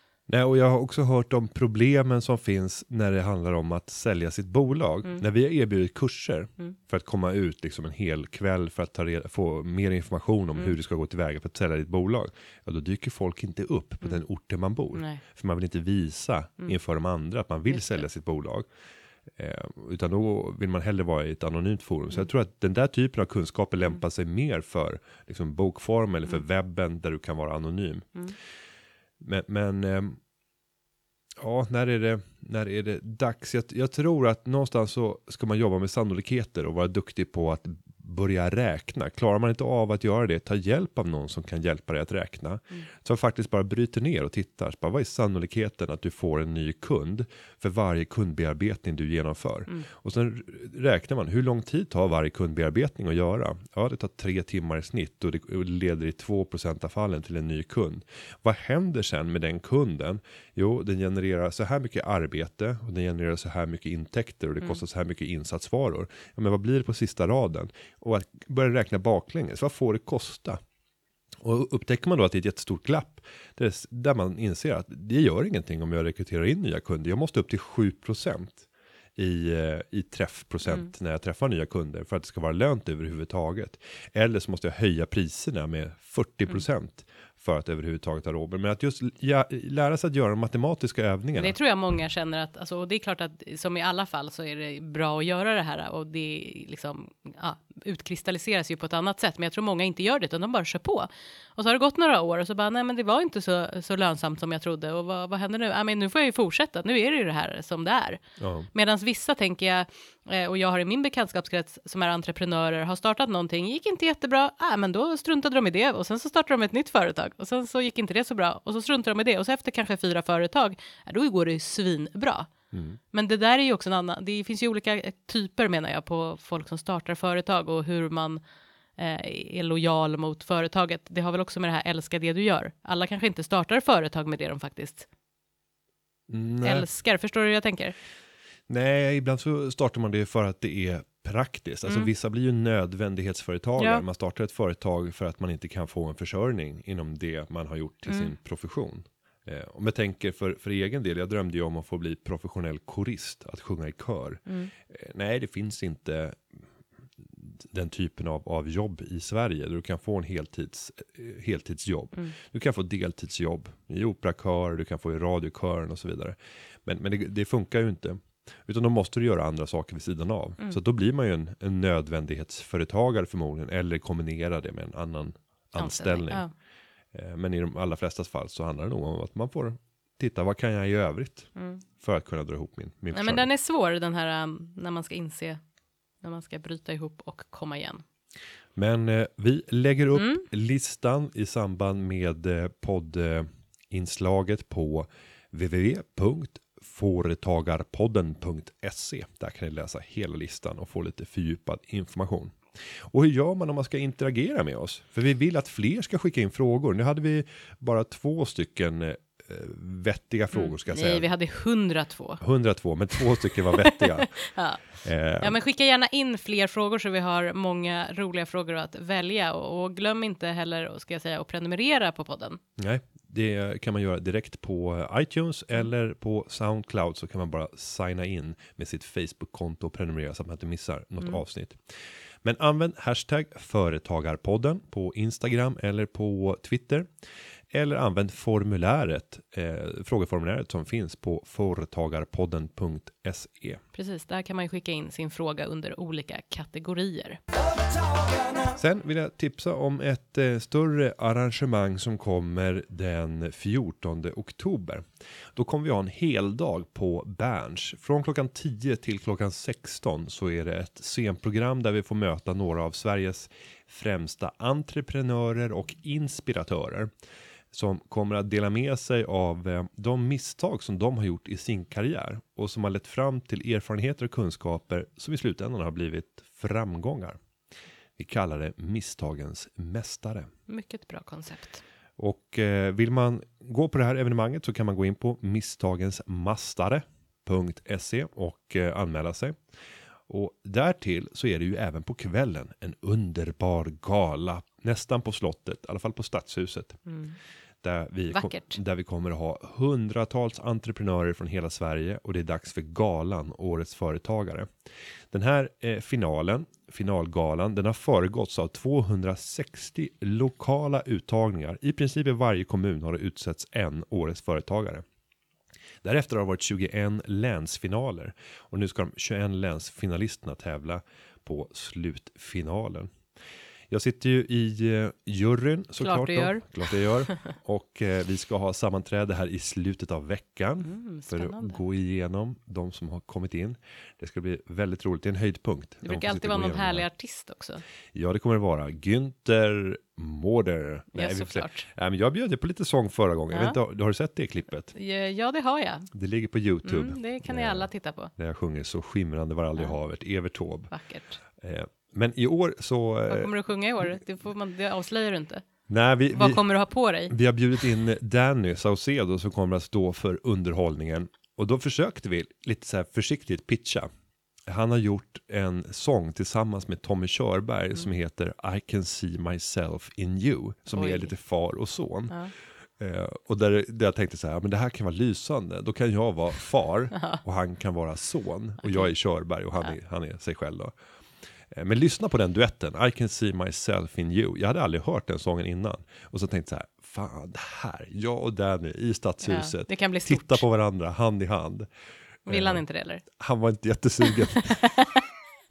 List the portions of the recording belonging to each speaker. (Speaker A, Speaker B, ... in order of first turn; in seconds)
Speaker A: 0.3-18.7, 19.4-28.1, 29.2-30.2, 31.4-70.6, 71.4-91.5, 108.4-108.7, 122.7-123.0, 136.3-136.9, 138.7-156.6, 157.2-176.4, 177.1-183.5, 188.8-211.3, 212.4-214.4, 215.0-215.6, 222.8-231.8, 232.4-237.1, 237.7-243.8, 248.8-267.1, 267.7-277.4, 278.2-280.5, 282.2-289.6, 290.3-297.0, 297.8-304.7, 305.3-315.0, 316.0-323.1, 323.9-337.1, 338.1-344.9, 346.1-350.9, 351.6-353.5, 355.9-356.7, 357.3-364.1, 364.7-372.4, 373.0-380.9, 381.7-391.9, 392.5-394.9
Speaker B: 14.9-15.2, 17.7-18.0, 91.3-108.2, 108.7-122.5, 123.1-128.4, 129.0-135.1, 136.6-137.9, 141.9-142.1, 143.8-144.0, 148.1-148.3, 154.5-154.7, 175.8-176.5, 181.6-181.8, 183.1-185.6, 186.2-188.0, 190.1-190.4, 210.5-212.4, 213.7-214.8, 215.4-222.6, 243.9-247.4, 280.7-281.8, 297.1-297.4, 298.3-298.8, 326.0-327.5, 330.8-331.8, 336.0-337.8, 341.1-341.9, 343.5-343.8, 344.9-346.1, 346.9-348.3, 350.9-351.4, 353.3-355.6, 356.3-357.3, 370.9-371.3, 377.1-377.4, 378.8-379.1, 389.4-390.6, 392.5-393.2, 394.4-395.2